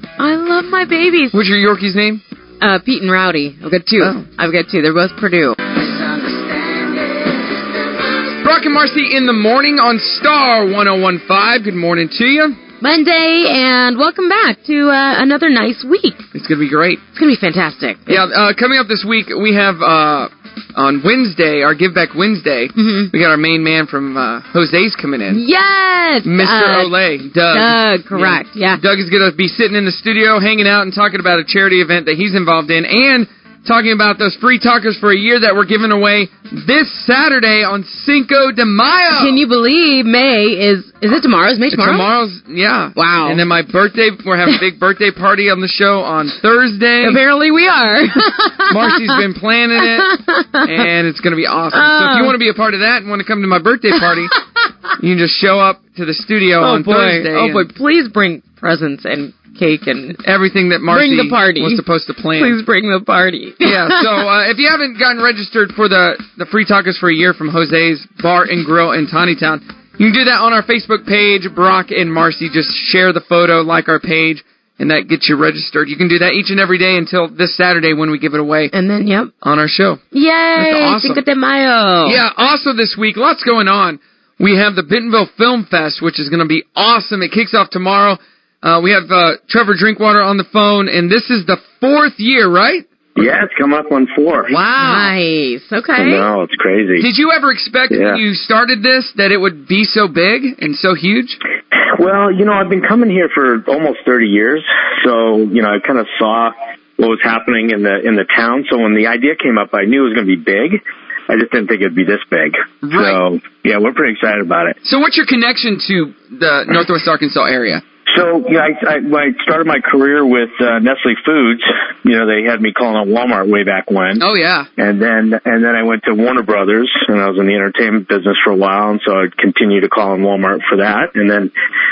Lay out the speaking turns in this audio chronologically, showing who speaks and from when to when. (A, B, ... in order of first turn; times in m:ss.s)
0:00.2-0:01.4 A
0:01.3-0:02.2 B
0:02.6-0:08.1 A
0:04.0-0:04.3 B
0:08.4-0:12.6 B
0:12.8-0:16.2 A
0:16.3-0:17.0 B
0:17.1-0:18.3 A
0:18.1-0:25.4 B
0:22.8-0:23.1 A
0:25.3-0:26.9 A
0:26.2-0:39.4 B
0:27.5-0:28.8 A
0:39.1-0:42.1 A
0:41.7-0:47.2 B
0:42.9-0:43.4 A
0:47.0-0:49.2 A
0:48.7-0:54.3 B
0:49.8-0:50.9 A
0:51.7-0:52.4 A
0:55.0-0:57.6 B
0:56.6-1:00.2 A
1:00.2-1:02.6 B
1:00.9-1:01.8 A
1:02.4-1:04.3 A
1:03.6-1:18.7 B
1:18.7-1:19.3 A
1:19.4-1:20.0 B
1:20.1-1:22.2 A
1:20.6-1:21.2 B
1:22.0-1:32.8 B
1:33.2-1:34.5 C
1:34.5-1:35.1 B
1:34.7-1:36.3 A
1:36.0-1:37.0 C
1:37.0-1:41.4 B
1:37.9-1:38.2 C
1:41.9-1:54.8 C
1:52.8-1:53.2 B
1:54.8-1:57.8 B
1:58.1-2:04.2 C
2:04.2-2:04.7 B
2:04.8-2:11.5 C